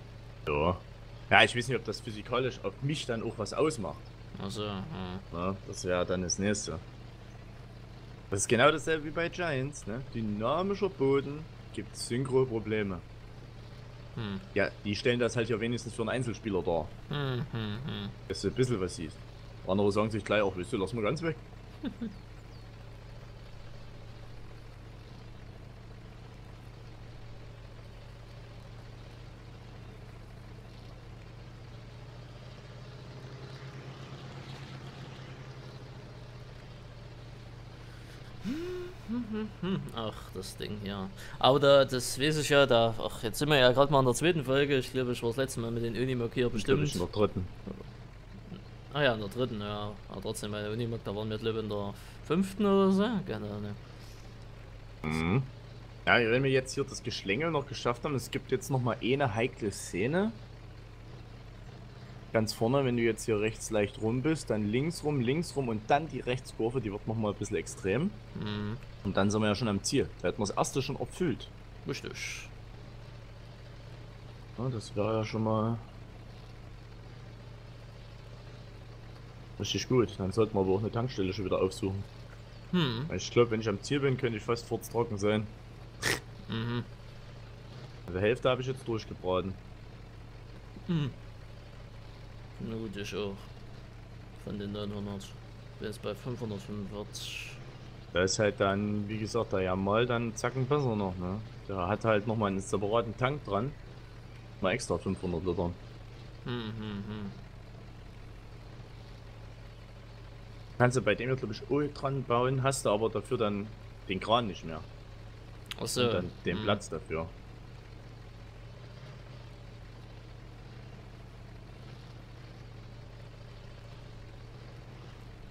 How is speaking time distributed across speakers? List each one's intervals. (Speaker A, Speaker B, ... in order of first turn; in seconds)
Speaker A: 0.5-4.1, 5.3-6.8, 8.3-13.1, 14.6-16.9, 18.3-21.4, 46.5-47.5, 55.0-55.5, 56.1-60.4, 62.3-68.2, 69.0-71.5, 74.6-75.9, 79.6-82.1, 83.1-86.1, 88.1-89.6, 98.1-103.8, 104.6-105.8, 110.8-114.9, 115.9-117.3
Speaker B: 4.3-5.2, 14.2-14.5, 17.1-18.1, 21.8-22.1, 38.4-47.0, 48.5-53.8, 68.3-68.8, 71.8-72.5, 82.7-83.1, 86.5-86.9, 90.9-91.2, 92.6-93.5, 94.4-97.6, 106.5-107.4, 115.8-116.8